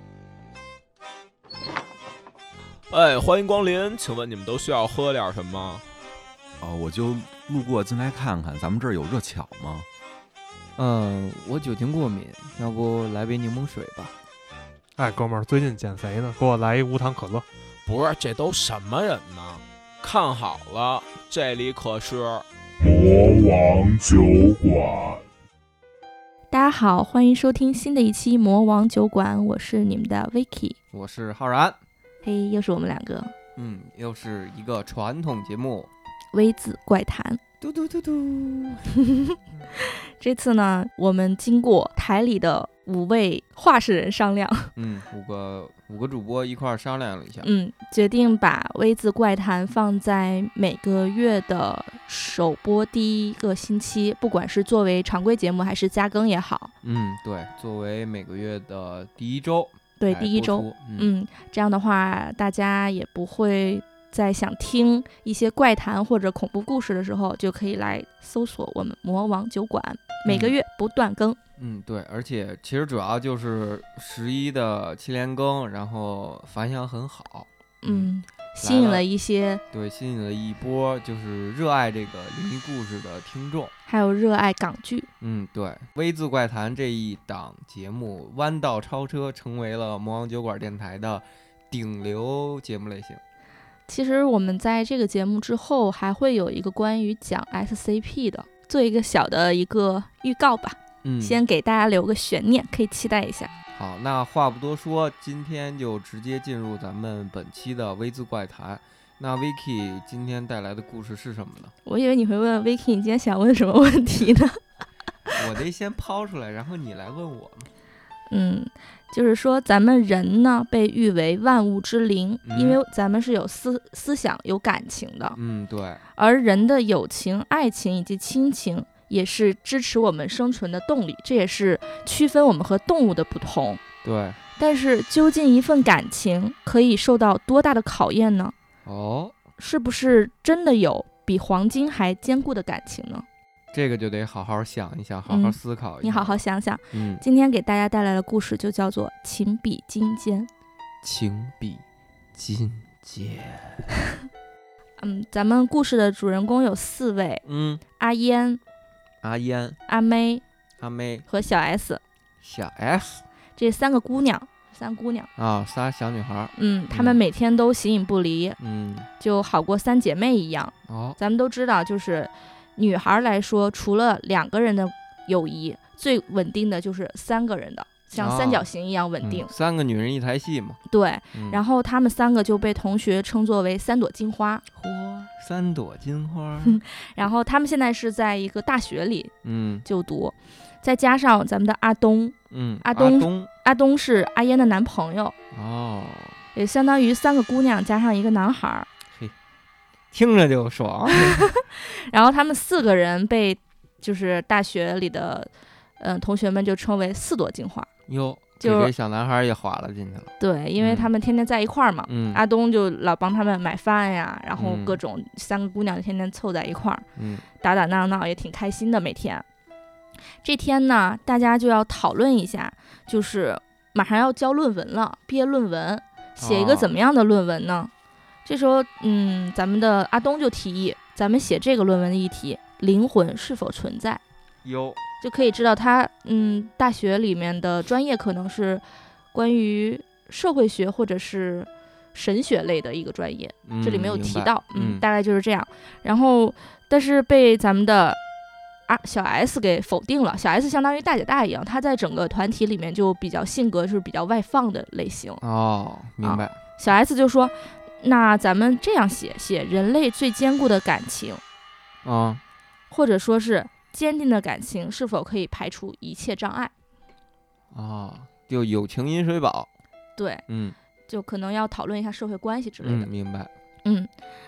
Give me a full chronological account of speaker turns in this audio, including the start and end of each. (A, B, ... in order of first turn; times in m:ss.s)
0:02.9-0:05.8 A
0:06.6-0:09.9 B
0:10.8-0:14.2 C
0:15.0-0:17.4 D
0:17.8-0:22.4 A
0:22.8-0:25.2 E
0:26.5-0:30.8 F
0:30.9-0:31.8 C
0:32.2-0:33.3 F
0:33.6-0:35.9 C
0:36.3-0:37.4 F
0:37.6-0:38.9 C
0:39.1-0:44.7 F
0:44.8-0:47.5 C
0:47.4-0:56.7 F
0:56.8-1:01.1 C
1:00.0-1:11.4 F
1:10.2-1:10.5 C
1:11.6-1:18.1 C
1:17.8-1:19.6 F
1:18.6-1:19.0 C
1:19.7-1:23.7 C
1:23.9-1:25.1 F
1:25.2-1:33.2 C
1:33.9-1:43.5 F
1:41.0-1:41.4 C
1:43.7-1:51.7 C
1:51.8-1:54.6 F
1:55.3-1:57.7 C
1:58.3-2:05.4 F
2:02.4-2:02.8 C
2:05.3-2:06.0 C
2:06.2-2:13.8 F
2:14.0-2:14.4 C
2:14.6-2:18.5 F
2:18.8-2:19.4 C
2:19.6-2:23.2 F
2:23.7-2:27.2 C
2:25.3-2:30.5 F
2:31.0-2:31.8 C
2:32.3-2:33.9 C
2:35.0-2:37.4 F
2:37.4-2:37.8 C
2:38.0-2:38.6 F
2:39.2-2:39.8 C
2:39.9-2:40.4 F
2:40.8-2:41.2 C
2:41.3-2:42.0 F
2:42.4-2:43.2 C
2:43.6-2:45.3 F
2:45.4-2:47.2 C
2:46.6-2:48.6 F
2:48.6-2:49.1 C
2:49.2-2:59.5 F
2:50.9-2:51.2 C
2:58.1-2:58.7 C
2:59.2-3:00.8 C
3:00.9-3:04.6 F
3:01.3-3:01.6 C
3:04.7-3:06.8 C
3:06.6-3:09.3 F
3:09.4-3:09.8 C
3:09.8-3:15.3 F
3:12.5-3:13.5 C
3:15.5-3:16.4 C
3:16.5-3:18.9 F
3:20.1-3:21.5 C
3:21.1-3:27.9 F
3:28.1-3:31.1 C
3:28.6-3:28.9 F
3:30.4-3:37.0 F
3:32.1-3:32.4 C
3:34.6-3:35.0 C
3:37.2-3:37.4 C
3:37.6-3:39.4 F
3:40.4-3:47.9 F
3:46.4-3:46.9 C
3:48.4-3:54.2 F
3:54.6-3:55.0 C
3:55.2-4:08.2 F
4:03.6-4:05.0 C
4:08.9-4:15.4 F
4:15.4-4:16.6 C
4:16.2-4:21.4 F
4:22.0-4:22.4 C
4:22.9-4:26.7 F
4:27.7-4:29.7 C
4:30.2-4:30.4 F
4:30.5-4:30.8 C
4:31.1-4:33.1 F
4:32.8-4:33.5 C
4:33.8-4:34.1 F